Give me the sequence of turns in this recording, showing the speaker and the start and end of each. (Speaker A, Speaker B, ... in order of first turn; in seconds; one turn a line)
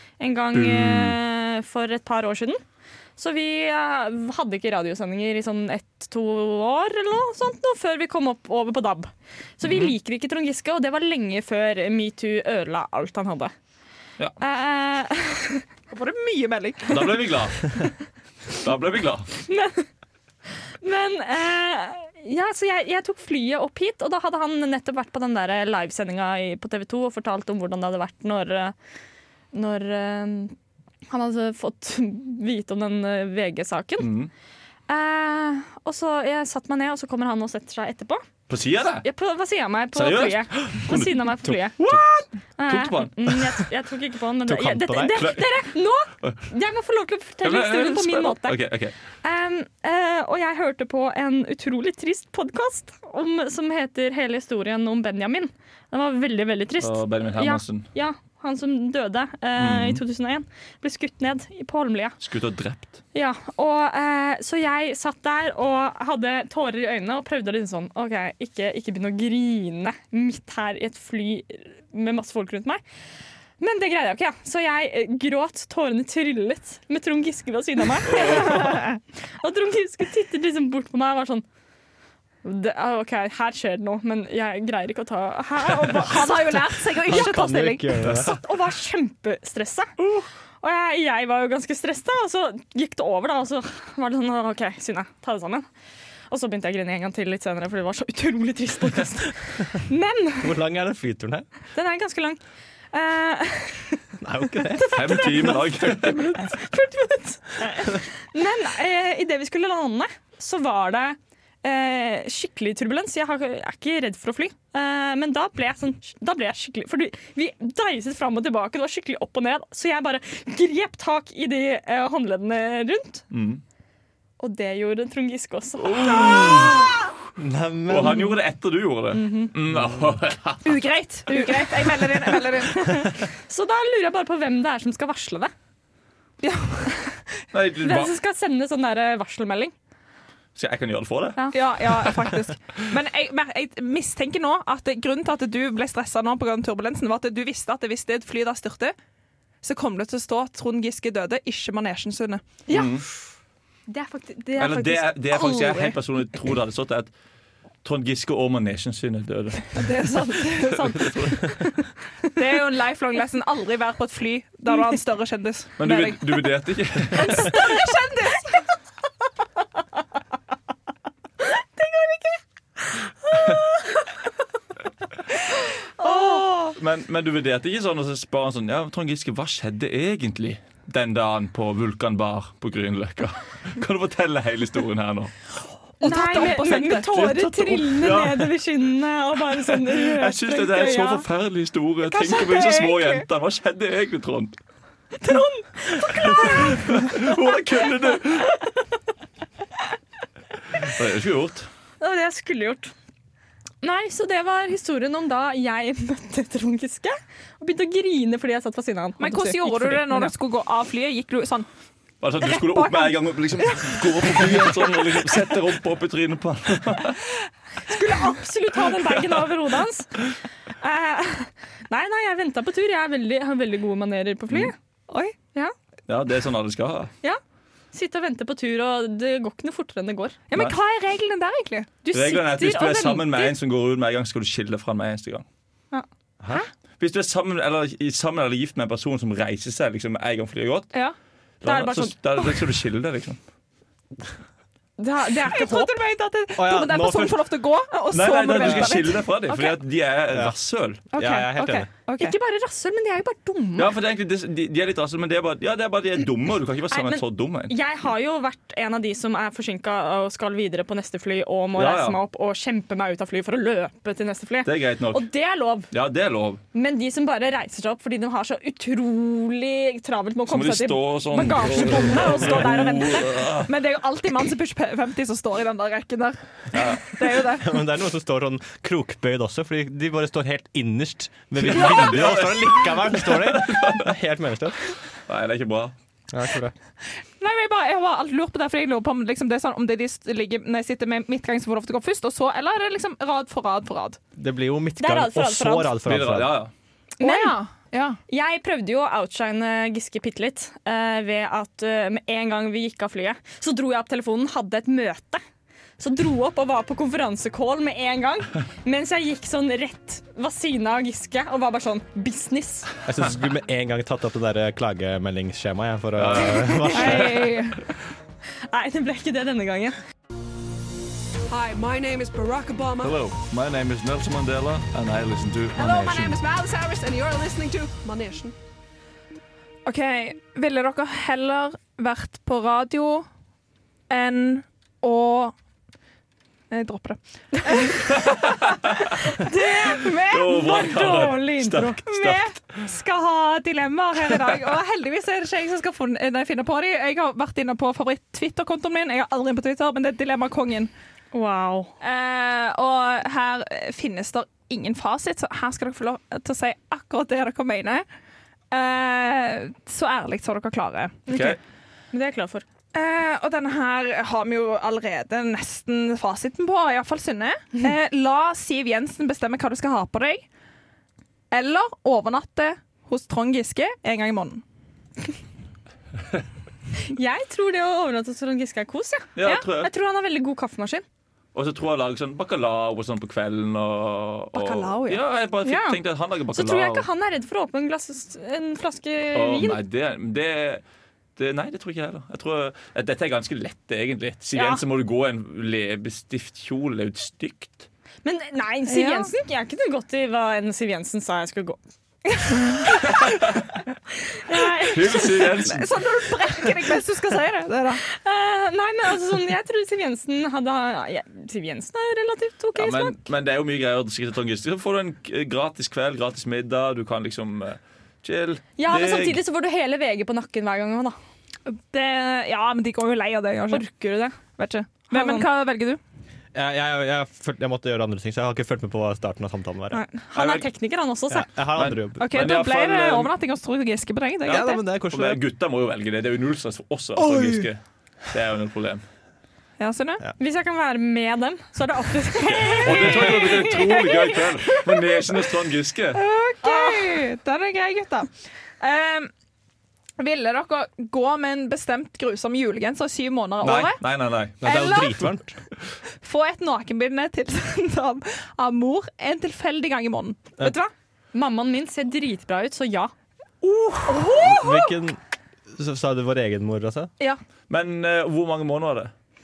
Speaker A: 0.2-2.6
Speaker B: 0.5-1.2
Speaker A: 3.2-13.5
Speaker B: 9.6-9.9
Speaker A: 14.4-15.7
Speaker C: 15.9-17.8
Speaker B: 16.9-17.7
Speaker B: 18.6-19.3
Speaker A: 19.5-19.9
Speaker A: 20.8-28.8
Speaker A: 29.5-30.6
Speaker A: 31.1-34.1
Speaker B: 34.0-34.3
Speaker A: 34.9-38.2
Speaker B: 38.5-39.1
Speaker A: 39.0-41.8
Speaker B: 39.9-43.6
Speaker A: 42.6-48.6
Speaker D: 44.5-45.4
Speaker B: 45.2-45.5
Speaker B: 47.4-48.9
Speaker A: 49.2-62.2
Speaker B: 56.8-57.9
Speaker B: 59.6-60.0
Speaker B: 62.2-63.0
Speaker A: 63.1-72.8
Speaker A: 73.6-81.5
Speaker B: 78.1-78.6
Speaker A: 82.4-86.5
Speaker C: 86.0-88.1
Speaker D: 87.0-88.4
Speaker A: 88.2-89.9
Speaker A: 90.6-95.7
Speaker A: 96.3-100.6
Speaker D: 100.4-101.5
Speaker A: 101.8-102.4
Speaker A: 102.9-104.1
Speaker D: 104.2-105.5
Speaker A: 104.7-105.6
Speaker B: 104.9-106.4
Speaker A: 106.4-123.2
Speaker B: 123.3-123.6
Speaker A: 124.4-126.9
Speaker B: 125.8-127.0
Speaker D: 126.2-126.8
Speaker D: 127.4-128.4
Speaker B: 127.9-130.8
Speaker A: 129.1-129.5
Speaker C: 130.7-133.1
Speaker A: 131.3-135.5
Speaker C: 136.4-137.2
Speaker B: 137.5-138.1
Speaker A: 137.8-139.7
Speaker B: 140.6-142.2
Speaker C: 141.5-148.9
Speaker C: 149.6-152.6
Speaker A: 152.7-152.9
Speaker B: 152.7-153.1
Speaker A: 153.9-155.2
Speaker B: 154.6-157.1
Speaker C: 155.3-155.9
Speaker B: 157.8-159.9
Speaker C: 159.7-161.7
Speaker B: 160.5-161.7
Speaker C: 162.3-166.5
Speaker B: 165.8-167.6
Speaker C: 167.2-168.7
Speaker A: 171.8-172.4
Speaker A: 173.2-174.0
Speaker A: 176.0-176.8
Speaker C: 176.0-176.5
Speaker B: 176.8-185.3
Speaker C: 186.0-187.4
Speaker A: 186.0-191.2
Speaker B: 187.1-188.5
Speaker B: 189.7-194.6
Speaker C: 192.1-193.2
Speaker A: 195.2-197.4
Speaker B: 196.3-198.5
Speaker A: 198.1-198.7
Speaker B: 200.8-201.7
Speaker A: 202.0-202.9
Speaker A: 203.8-210.3
Speaker C: 209.2-211.7
Speaker B: 212.2-217.2
Speaker C: 212.4-215.0
Speaker A: 217.9-220.3
Speaker A: 220.8-224.8
Speaker C: 225.1-225.3
Speaker B: 226.1-227.1
Speaker A: 227.9-230.4
Speaker C: 230.5-231.9
Speaker A: 232.0-233.6
Speaker B: 232.1-235.4
Speaker A: 235.9-236.7
Speaker B: 237.0-240.9
Speaker B: 241.6-243.4
Speaker A: 241.6-242.5
Speaker A: 245.0-246.0
Speaker C: 245.5-249.7
Speaker D: 246.6-247.5
Speaker B: 248.1-251.0
Speaker D: 248.6-248.9
Speaker D: 250.3-250.6
Speaker D: 251.1-251.9
Speaker C: 251.1-252.3
Speaker A: 252.2-253.9
Speaker B: 253.8-257.7
Speaker A: 256.9-265.9
Speaker B: 261.8-262.2
Speaker B: 264.6-265.2
Speaker B: 265.9-266.6
Speaker A: 266.7-273.4
Speaker B: 270.5-273.7
Speaker C: 272.0-272.7
Speaker C: 273.7-277.8
Speaker B: 276.7-277.2
Speaker D: 277.6-284.8
Speaker B: 281.6-284.1
Speaker B: 285.3-285.9
Speaker D: 286.3-286.7
Speaker C: 287.4-294.2
Speaker D: 294.4-296.6
Speaker A: 295.0-295.9
Speaker B: 296.1-296.7
Speaker A: 297.2-297.6
Speaker C: 297.2-298.2
Speaker A: 298.3-305.4
Speaker A: 306.0-312.9
Speaker D: 313.1-317.6
Speaker B: 316.2-317.3
Speaker C: 316.9-317.8
Speaker A: 318.7-320.0
Speaker E: 321.5-323.1
Speaker B: 323.0-326.4
Speaker E: 325.8-328.6
Speaker C: 325.8-327.5
Speaker C: 329.9-333.3
Speaker C: 334.1-335.5
Speaker C: 336.7-338.5
Speaker B: 338.1-339.0
Speaker C: 339.3-340.8
Speaker A: 339.4-342.0
Speaker B: 340.3-342.5
Speaker C: 342.1-350.9
Speaker A: 351.3-351.9
Speaker C: 352.0-358.1
Speaker C: 358.7-361.2
Speaker B: 361.3-361.6
Speaker A: 361.3-361.6
Speaker A: 362.1-362.6
Speaker C: 362.9-370.4
Speaker C: 371.5-374.6
Speaker A: 377.1-381.1
Speaker B: 379.4-379.9
Speaker B: 381.5-387.1
Speaker C: 384.5-385.2
Speaker A: 385.6-386.0
Speaker A: 386.5-389.8
Speaker B: 389.3-390.8
Speaker B: 391.4-397.9
Speaker A: 394.5-394.8
Speaker A: 398.2-401.8
Speaker C: 398.9-399.3
Speaker C: 402.4-403.0
Speaker B: 403.1-403.4
Speaker A: 404.4-405.4
Speaker B: 404.8-406.0
Speaker C: 405.2-408.0
Speaker A: 408.1-413.2
Speaker B: 412.8-419.4
Speaker A: 418.8-421.2
Speaker C: 421.7-423.9
Speaker A: 423.7-424.4
Speaker C: 424.6-426.0
Speaker A: 425.1-425.5
Speaker D: 426.5-430.0
Speaker A: 429.9-431.5
Speaker B: 430.4-430.7
Speaker D: 431.3-432.5
Speaker B: 431.8-433.3
Speaker C: 432.2-434.8
Speaker D: 434.4-435.4
Speaker B: 434.5-439.1
Speaker D: 437.2-437.7
Speaker C: 439.8-440.2
Speaker A: 440.4-444.4
Speaker B: 442.4-446.2
Speaker C: 446.1-449.3
Speaker A: 446.6-447.2
Speaker C: 450.2-454.0
Speaker B: 453.6-454.6
Speaker D: 454.6-455.6
Speaker C: 454.6-455.4
Speaker C: 456.2-460.7
Speaker A: 460.6-463.1
Speaker C: 463.6-464.9
Speaker D: 464.2-465.2
Speaker D: 465.7-467.1
Speaker B: 467.7-469.1